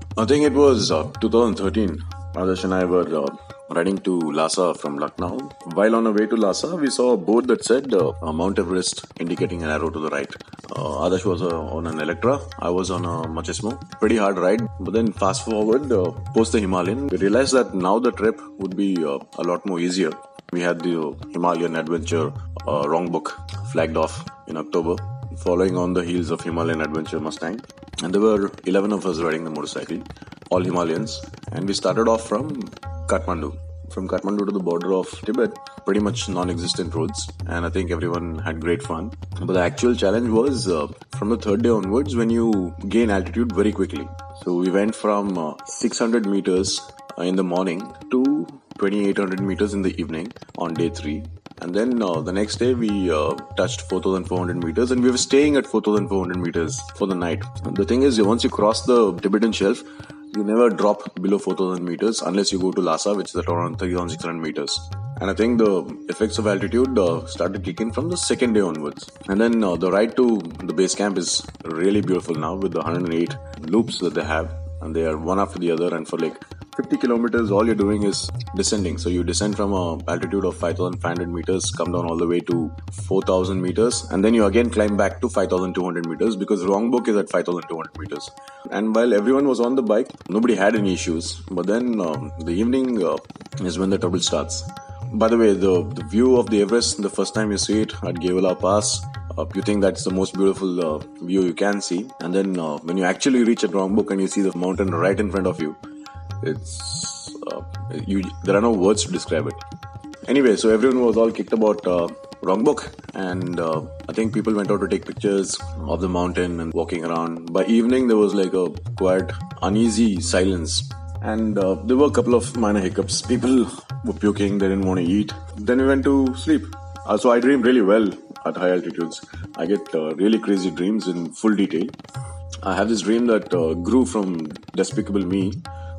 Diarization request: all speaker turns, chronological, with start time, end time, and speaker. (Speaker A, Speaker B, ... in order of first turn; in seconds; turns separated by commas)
Speaker A: 0.2-105.8, Speaker A: 106.4-109.6, Speaker A: 110.3-132.0, Speaker A: 132.6-135.6